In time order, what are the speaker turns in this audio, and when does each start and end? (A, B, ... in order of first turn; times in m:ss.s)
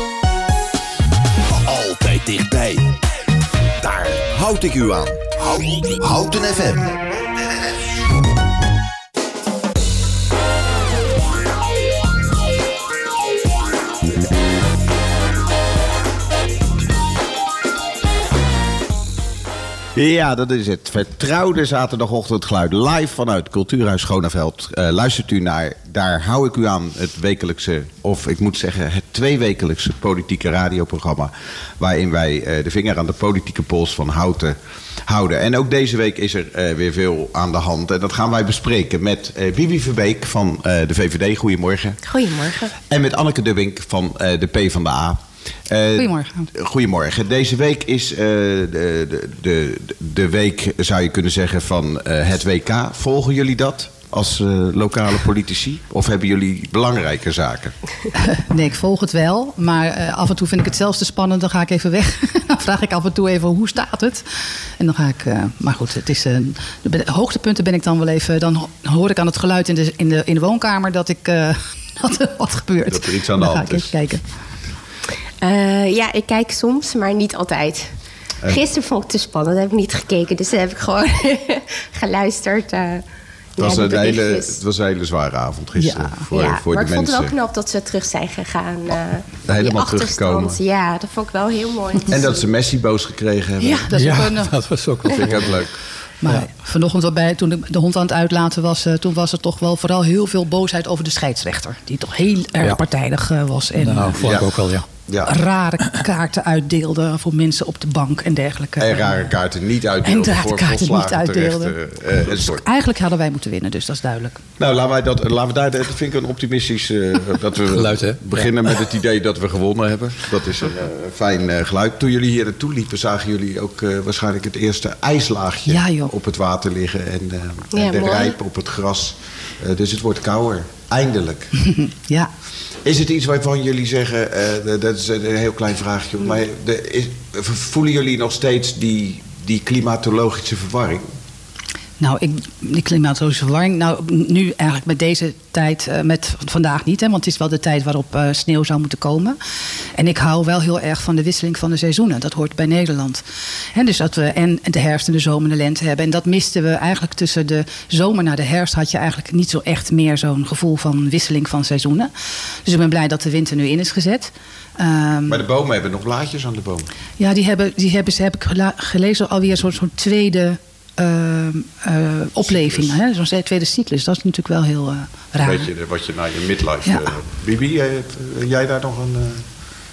0:01.5-0:02.9 A
0:03.8-0:07.0 A
0:19.9-0:42.0 B
0:42.1-0:42.7 C
0:42.7-0:57.8 B
0:46.0-0:46.5 D
0:58.2-1:04.2 D
1:04.8-1:14.2 D
1:12.9-1:14.0 B
1:15.4-1:17.9 C
1:18.5-1:23.0 C
1:23.6-1:24.6 C
1:23.6-1:27.3 B
1:25.8-1:26.3 D
1:26.3-1:32.5 C
1:29.5-1:30.6 B
1:32.1-1:33.9 B
1:33.6-1:34.5 D
1:33.9-1:35.6 E
1:35.1-1:35.8 B
1:36.2-1:44.2 D
1:43.8-1:44.8 E
1:44.2-1:44.5 B
1:45.1-1:45.4 B
1:45.3-1:49.3 D
1:48.8-1:52.6 B
1:50.0-1:54.4 D
1:54.6-2:11.5 B
1:57.7-1:58.6 E
2:05.7-2:06.1 D
2:07.7-2:08.4 C
2:11.7-2:12.3 D
2:12.8-2:21.0 B
2:22.0-2:29.4 D
2:30.0-2:33.2 D
2:33.7-2:42.1 D
2:42.6-2:45.4 D
2:45.3-2:46.9 B
2:47.2-2:55.7 D
2:52.4-2:53.0 B
2:55.4-2:59.5 B